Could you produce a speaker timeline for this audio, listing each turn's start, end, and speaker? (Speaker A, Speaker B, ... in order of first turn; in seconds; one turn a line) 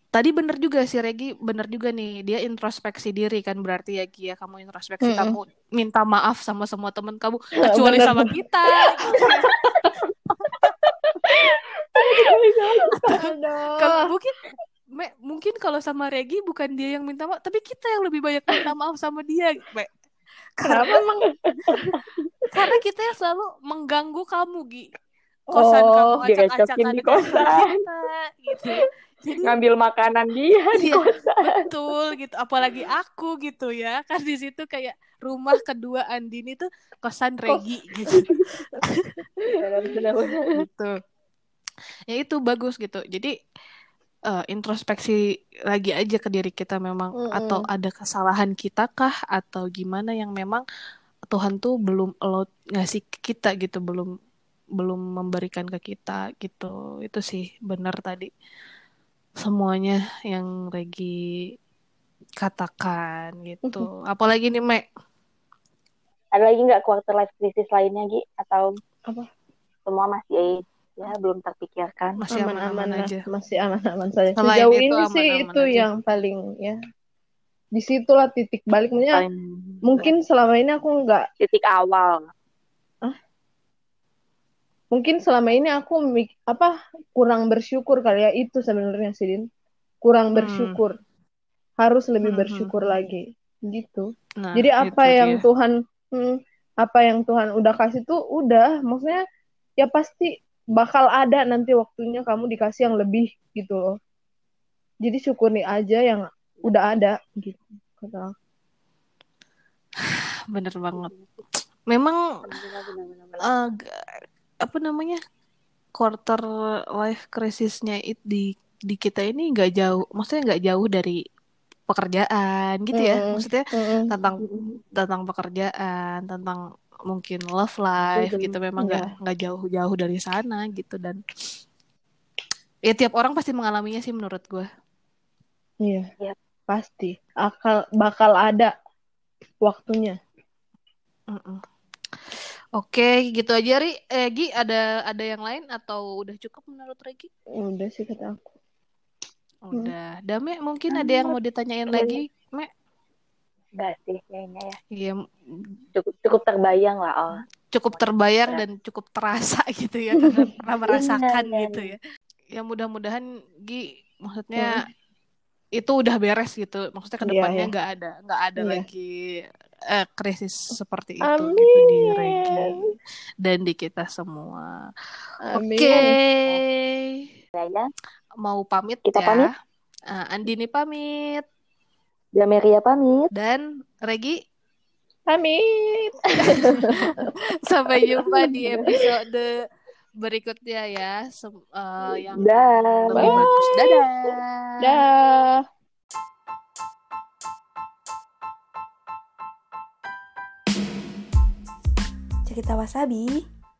Speaker A: 0.1-9.5
Speaker B: 5.0-5.4
Speaker B: 7.6-8.3
Speaker B: 9.1-9.9
Speaker B: 11.9-14.1
Speaker C: 12.1-12.9
Speaker A: 13.0-14.4
Speaker A: 14.9-19.9
Speaker A: 20.6-20.9
Speaker B: 20.6-21.9
Speaker C: 21.5-22.0
Speaker A: 22.5-24.9
Speaker A: 25.5-29.5
Speaker B: 25.6-26.2
Speaker C: 26.2-27.8
Speaker C: 29.4-31.7
Speaker A: 30.7-38.3
Speaker B: 37.5-38.2
Speaker C: 39.5-40.6
Speaker A: 40.5-40.9
Speaker A: 42.1-43.3
Speaker A: 44.3-45.2
Speaker A: 45.7-50.6
Speaker B: 47.2-47.6
Speaker A: 51.3-54.1
Speaker A: 54.8-58.3
Speaker A: 59.4-61.1
Speaker A: 62.4-64.8
Speaker C: 66.3-68.8
Speaker C: 69.9-72.2
Speaker A: 72.2-73.2
Speaker B: 72.3-76.8
Speaker A: 74.4-75.9
Speaker B: 77.8-79.2
Speaker C: 79.1-80.1
Speaker B: 79.9-81.2
Speaker C: 81.4-82.3
Speaker B: 84.9-89.4
Speaker B: 90.0-90.9
Speaker A: 90.4-90.8
Speaker B: 91.8-99.2
Speaker A: 92.3-92.7
Speaker A: 94.4-95.4
Speaker B: 99.8-103.9
Speaker B: 105.0-108.3
Speaker A: 110.0-111.1
Speaker C: 110.9-111.4
Speaker A: 111.9-112.2
Speaker C: 112.5-113.5
Speaker A: 113.4-114.0
Speaker A: 114.6-115.2
Speaker A: 116.0-116.4
Speaker A: 117.0-121.2
Speaker A: 121.9-124.4
Speaker B: 122.9-124.1
Speaker C: 124.4-124.8
Speaker A: 124.9-131.2
Speaker C: 128.2-128.6
Speaker B: 128.8-129.1
Speaker A: 132.9-134.7
Speaker B: 135.8-136.1
Speaker B: 136.7-138.7
Speaker B: 139.6-140.2
Speaker A: 141.3-141.6
Speaker A: 142.8-147.3
Speaker B: 147.6-148.5
Speaker A: 149.7-152.7
Speaker C: 150.9-151.4
Speaker C: 151.9-152.2
Speaker C: 153.8-154.8
Speaker A: 154.9-155.7
Speaker C: 155.9-158.6
Speaker A: 157.7-162.0
Speaker C: 160.9-161.9
Speaker A: 162.6-164.8
Speaker B: 164.6-164.8
Speaker A: 165.8-172.8
Speaker B: 167.2-167.7
Speaker B: 168.6-168.8
Speaker B: 171.2-172.9
Speaker A: 173.4-174.8
Speaker B: 175.5-176.1
Speaker A: 175.6-177.3
Speaker C: 177.6-177.9
Speaker A: 178.4-179.5
Speaker C: 179.1-179.5
Speaker A: 180.1-181.4
Speaker C: 182.3-183.3
Speaker A: 183.3-184.4
Speaker B: 185.3-187.0
Speaker A: 186.7-187.1
Speaker A: 187.6-189.5
Speaker A: 190.2-195.0
Speaker C: 192.3-193.4
Speaker B: 193.2-193.8
Speaker B: 194.8-195.6
Speaker C: 202.5-203.3